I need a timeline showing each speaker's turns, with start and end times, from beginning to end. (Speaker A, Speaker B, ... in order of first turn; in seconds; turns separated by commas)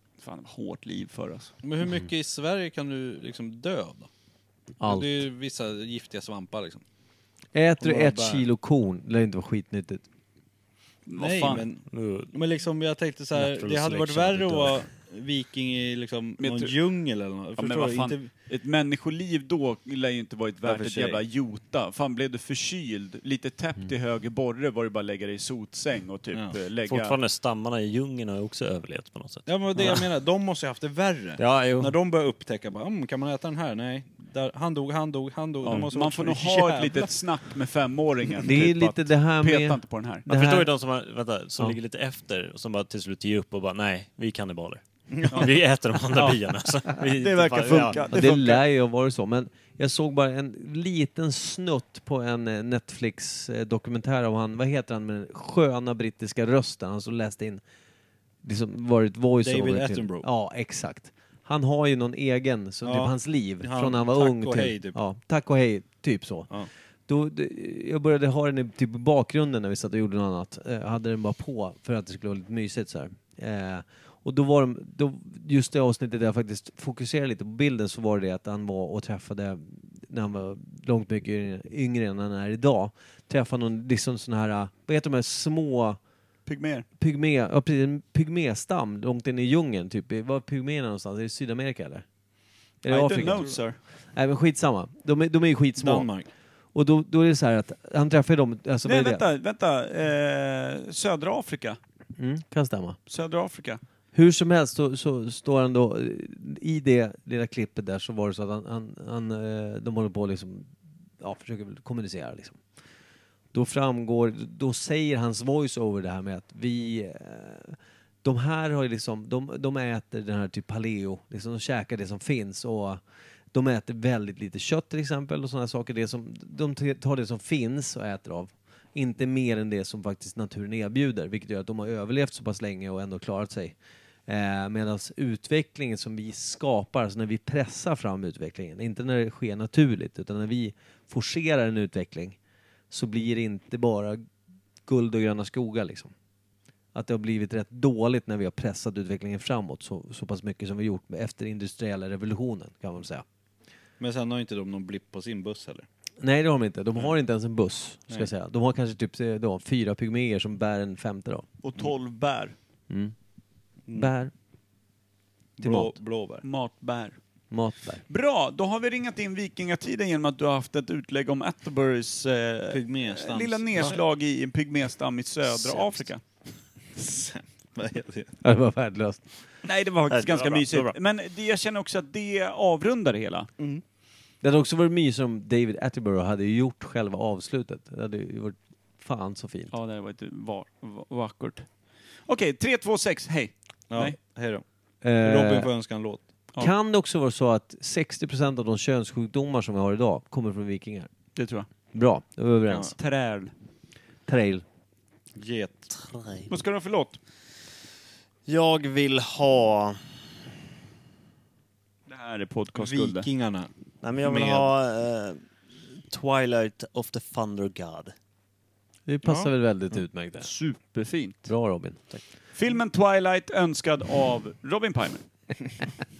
Speaker A: 0.2-1.6, Speaker B: 1.6-4.1, Speaker C: 4.8-5.3, Speaker B: 4.8-6.8, Speaker C: 7.5-10.0, Speaker B: 7.8-8.5, Speaker A: 11.1-11.7, Speaker B: 11.2-18.3, Speaker D: 11.6-12.3, Speaker D: 13.3-14.8, Speaker A: 16.4-16.8, Speaker A: 17.6-27.2, Speaker B: 20.6-21.2, Speaker D: 26.9-30.0, Speaker B: 29.4-37.1, Speaker D: 31.4-31.9, Speaker A: 35.6-40.2, Speaker C: 38.4-40.7, Speaker D: 40.3-48.1, Speaker B: 45.1-45.5, Speaker A: 47.0-48.6, Speaker C: 48.0-57.6, Speaker C: 58.4-86.0, Speaker B: 59.4-60.3, Speaker B: 62.8-65.0, Speaker A: 86.5-86.8, Speaker C: 87.0-92.0, Speaker C: 92.8-96.1, Speaker A: 92.9-93.8, Speaker B: 93.1-93.6, Speaker B: 95.8-96.3, Speaker C: 96.7-99.2, Speaker A: 98.8-101.8, Speaker C: 102.2-103.0, Speaker A: 103.1-103.8, Speaker C: 104.1-112.6, Speaker C: 113.5-133.8, Speaker C: 134.3-142.4, Speaker C: 142.9-144.2, Speaker C: 144.8-146.1, Speaker C: 146.9-153.2, Speaker B: 154.0-155.9, Speaker C: 156.2-161.4, Speaker A: 161.6-162.5, Speaker C: 162.9-163.1, Speaker B: 163.9-164.1, Speaker C: 163.9-164.3, Speaker B: 165.6-166.4, Speaker C: 165.6-166.0, Speaker A: 166.4-167.2, Speaker C: 167.5-168.0, Speaker A: 168.1-176.2, Speaker B: 172.7-174.0, Speaker B: 175.5-176.1, Speaker B: 176.9-178.4, Speaker C: 178.4-179.3, Speaker A: 179.6-183.5, Speaker D: 180.1-180.9, Speaker C: 184.4-189.7, Speaker A: 189.7-191.7, Speaker A: 192.2-194.2, Speaker B: 193.9-194.6, Speaker C: 195.0-195.7, Speaker B: 195.2-196.3, Speaker C: 196.6-201.1, Speaker A: 201.3-201.7, Speaker C: 201.9-202.9, Speaker B: 202.7-202.9, Speaker A: 202.9-203.5, Speaker C: 204.3-204.6, Speaker B: 205.3-205.9, Speaker D: 205.9-206.5, Speaker A: 206.5-207.2, Speaker D: 208.5-210.0, Speaker A: 212.1-213.3, Speaker B: 212.8-213.7, Speaker D: 214.0-218.1, Speaker B: 214.2-214.7, Speaker C: 219.1-220.5, Speaker B: 219.2-219.5, Speaker A: 220.4-221.5, Speaker C: 221.5-222.0, Speaker A: 222.5-225.2